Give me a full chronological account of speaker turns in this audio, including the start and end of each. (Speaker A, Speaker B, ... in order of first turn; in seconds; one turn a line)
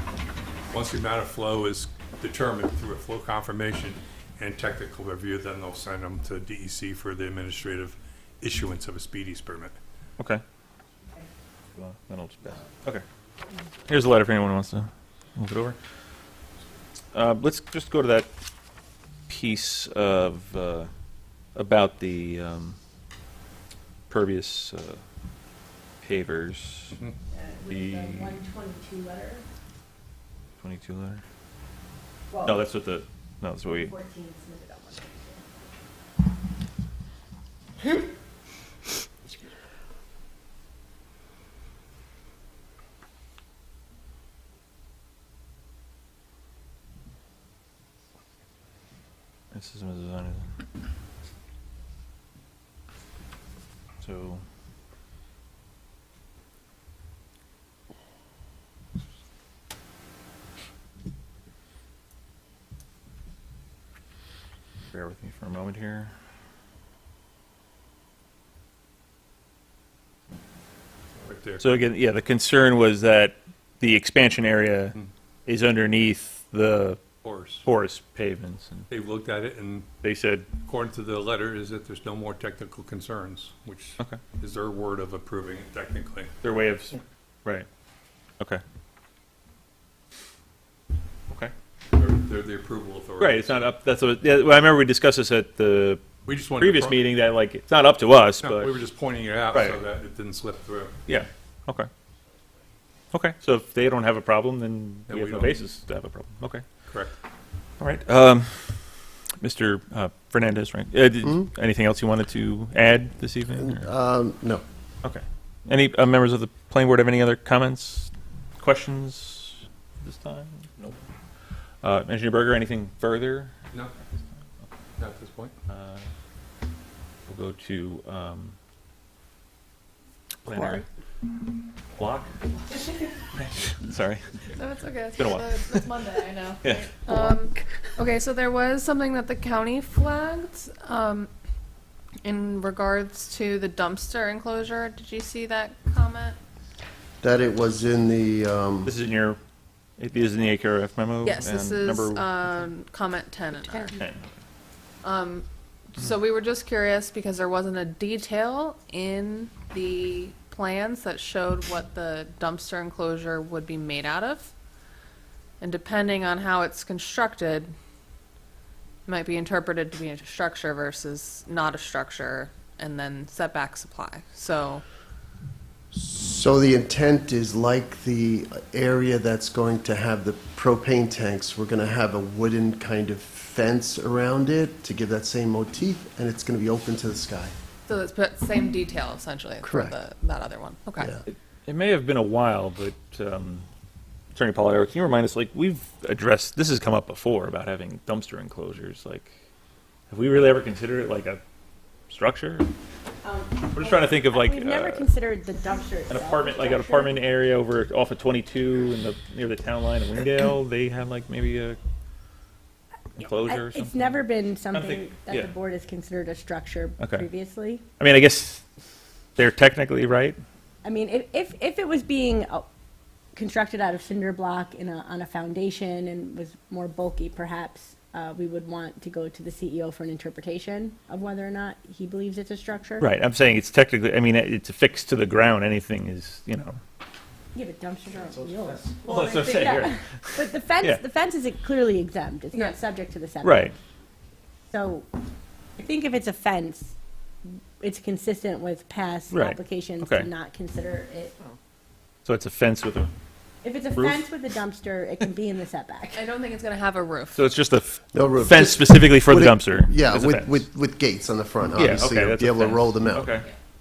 Speaker A: 0.7-9.8
Speaker B: 11.7-13.1
Speaker B: 13.9-15.8
Speaker B: 17.1-18.3
Speaker B: 19.3-20.9
Speaker B: 21.6-22.8
Speaker B: 24.1-25.0
Speaker B: 26.0-27.0
Speaker C: 27.3-29.4
Speaker B: 27.7-28.4
Speaker B: 30.6-31.2
Speaker C: 32.3-32.6
Speaker B: 32.4-33.9
Speaker C: 33.6-35.5
Speaker B: 49.5-50.5
Speaker B: 54.0-54.4
Speaker B: 64.9-66.1
Speaker A: 71.2-71.8
Speaker B: 71.6-77.1
Speaker A: 77.2-77.7
Speaker B: 77.6-78.9
Speaker A: 78.9-79.9
Speaker B: 80.0-80.6
Speaker A: 80.6-86.4
Speaker B: 86.4-87.7
Speaker A: 91.9-93.3
Speaker B: 93.2-98.8
Speaker A: 96.3-96.9
Speaker A: 98.4-100.9
Speaker B: 99.5-99.8
Speaker B: 101.1-101.9
Speaker B: 103.1-106.7
Speaker A: 105.1-105.5
Speaker A: 106.9-107.1
Speaker B: 107.8-113.9
Speaker D: 113.6-114.6
Speaker B: 115.0-120.8
Speaker B: 121.8-123.6
Speaker A: 125.0-125.5
Speaker B: 125.7-126.1
Speaker B: 127.3-128.6
Speaker B: 130.4-130.8
Speaker B: 131.9-132.3
Speaker B: 133.3-134.5
Speaker E: 134.5-141.3
Speaker B: 135.2-135.9
Speaker B: 136.6-137.3
Speaker E: 142.2-146.4
Speaker D: 147.2-148.9
Speaker B: 148.8-149.4
Speaker B: 150.0-152.3
Speaker E: 151.2-154.0
Speaker C: 153.5-154.0
Speaker B: 154.0-154.3
Speaker E: 155.0-164.5
Speaker E: 165.6-167.7
Speaker E: 169.1-174.8
Speaker D: 175.9-187.6
Speaker E: 187.9-191.1
Speaker D: 189.6-190.0
Speaker B: 191.3-193.7
Speaker B: 194.3-199.3
Speaker B: 200.1-201.4
Speaker B: 202.1-202.7
Speaker C: 203.2-207.2
Speaker B: 203.7-205.1
Speaker B: 206.1-211.8
Speaker B: 213.2-214.2
Speaker C: 213.2-217.9
Speaker B: 214.7-215.5
Speaker B: 217.0-217.3
Speaker B: 218.0-218.6
Speaker B: 219.4-220.4
Speaker C: 220.8-222.7
Speaker C: 223.3-233.1
Speaker B: 233.0-236.8
Speaker C: 237.5-243.7
Speaker B: 238.8-241.0
Speaker B: 243.4-243.7
Speaker C: 244.7-245.1
Speaker C: 245.8-246.9
Speaker C: 247.8-251.3
Speaker B: 249.3-250.3
Speaker B: 252.2-253.1
Speaker C: 253.6-256.3
Speaker B: 253.9-254.2
Speaker E: 256.1-257.5
Speaker B: 257.4-260.6
Speaker D: 258.1-263.4
Speaker B: 261.8-263.4